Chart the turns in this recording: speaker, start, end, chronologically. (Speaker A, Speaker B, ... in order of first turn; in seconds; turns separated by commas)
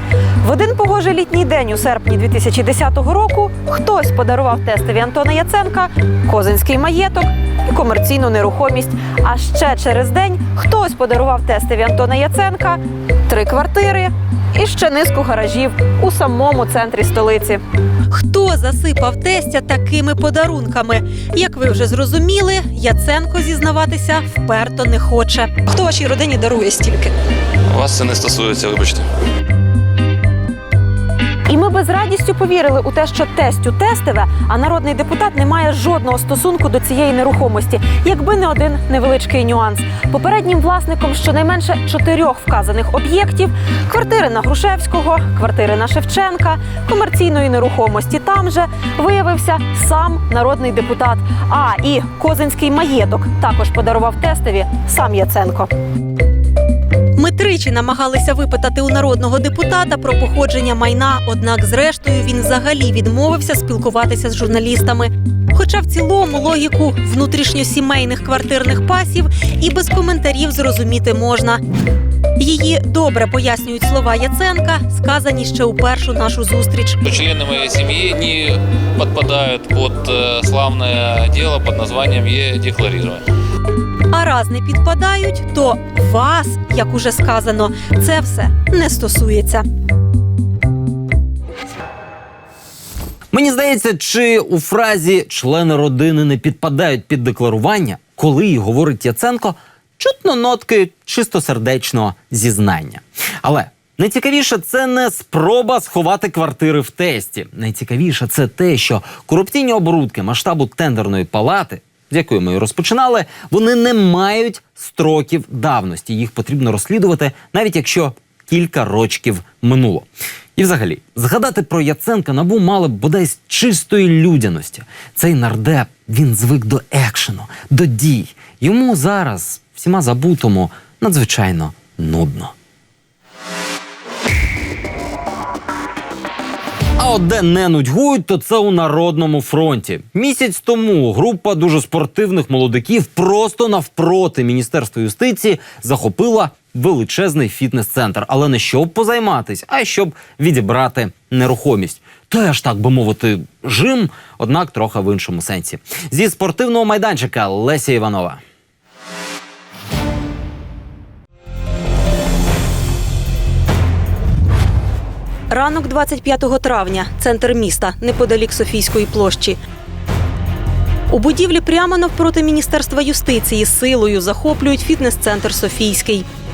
Speaker A: 0.4-27.1, Speaker B: 27.7-29.0, Speaker A: 31.5-55.7, Speaker A: 57.2-71.6, Speaker A: 72.4-77.0, Speaker B: 77.0-83.2, Speaker A: 84.1-89.6, Speaker C: 93.3-132.5, Speaker C: 137.0-158.4, Speaker A: 165.5-169.6, Speaker A: 171.1-176.2